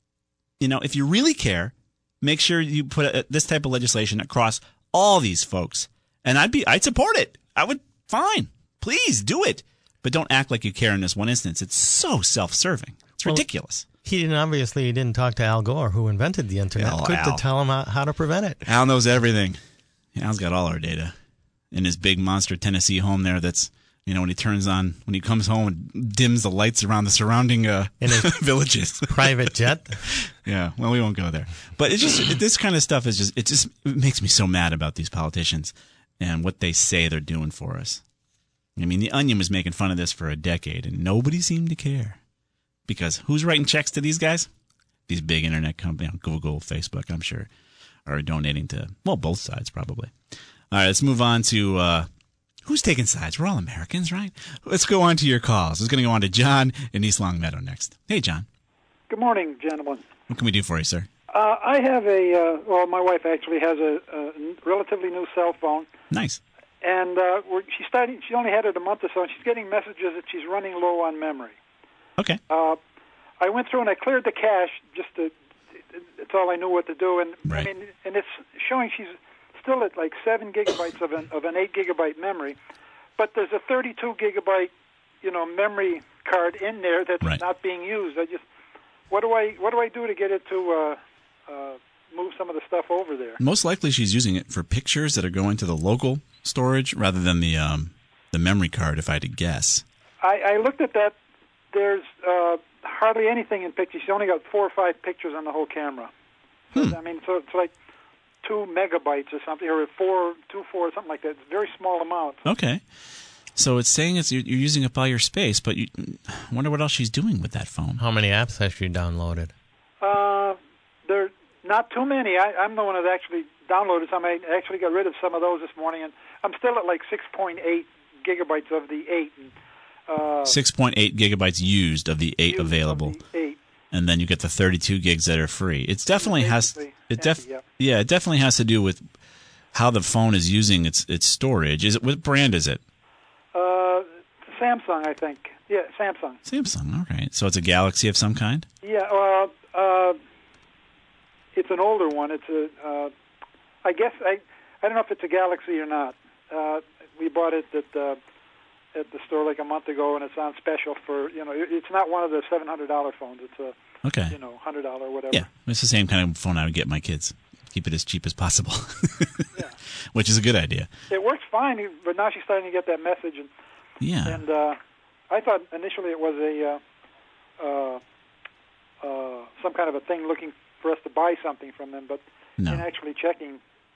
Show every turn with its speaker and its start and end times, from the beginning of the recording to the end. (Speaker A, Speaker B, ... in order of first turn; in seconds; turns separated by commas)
Speaker A: 0.6-13.9, Speaker B: 14.0-18.6, Speaker A: 16.8-17.4, Speaker A: 18.6-19.6, Speaker A: 20.1-21.1, Speaker A: 21.7-38.0, Speaker B: 28.0-28.4, Speaker B: 29.0-30.0, Speaker A: 38.8-42.2, Speaker A: 42.9-44.5, Speaker A: 45.1-47.5, Speaker A: 48.1-50.1, Speaker A: 50.7-52.1, Speaker A: 52.6-58.5, Speaker C: 59.1-60.0, Speaker A: 60.3-61.1, Speaker C: 61.3-65.9, Speaker A: 66.1-66.4, Speaker C: 66.8-71.6, Speaker C: 72.5-72.8, Speaker C: 73.4-75.3, Speaker C: 75.9-82.6, Speaker C: 83.2-88.4, Speaker C: 89.1-93.4, Speaker A: 93.4-99.8, Speaker C: 100.2-101.2, Speaker C: 101.7-106.1, Speaker C: 106.7-107.7, Speaker C: 108.4-112.4, Speaker A: 112.4-112.8, Speaker A: 113.5-118.0, Speaker B: 118.0-119.5, Speaker C: 120.0-129.5, Speaker C: 130.1-130.6, Speaker A: 130.4-133.2, Speaker C: 132.4-133.6, Speaker A: 133.9-139.0, Speaker C: 136.1-137.6, Speaker A: 139.7-142.8, Speaker C: 143.5-146.4, Speaker A: 146.4-148.7, Speaker C: 148.8-150.2, Speaker C: 151.5-153.1, Speaker C: 153.8-158.2, Speaker C: 158.9-163.8, Speaker A: 164.0-164.3, Speaker C: 164.3-165.5, Speaker A: 165.3-169.5, Speaker A: 170.1-170.9, Speaker C: 171.1-173.5, Speaker A: 174.0-174.4, Speaker C: 174.2-174.8, Speaker C: 175.3-176.8, Speaker C: 177.6-178.0, Speaker C: 179.0-183.6, Speaker A: 182.6-182.8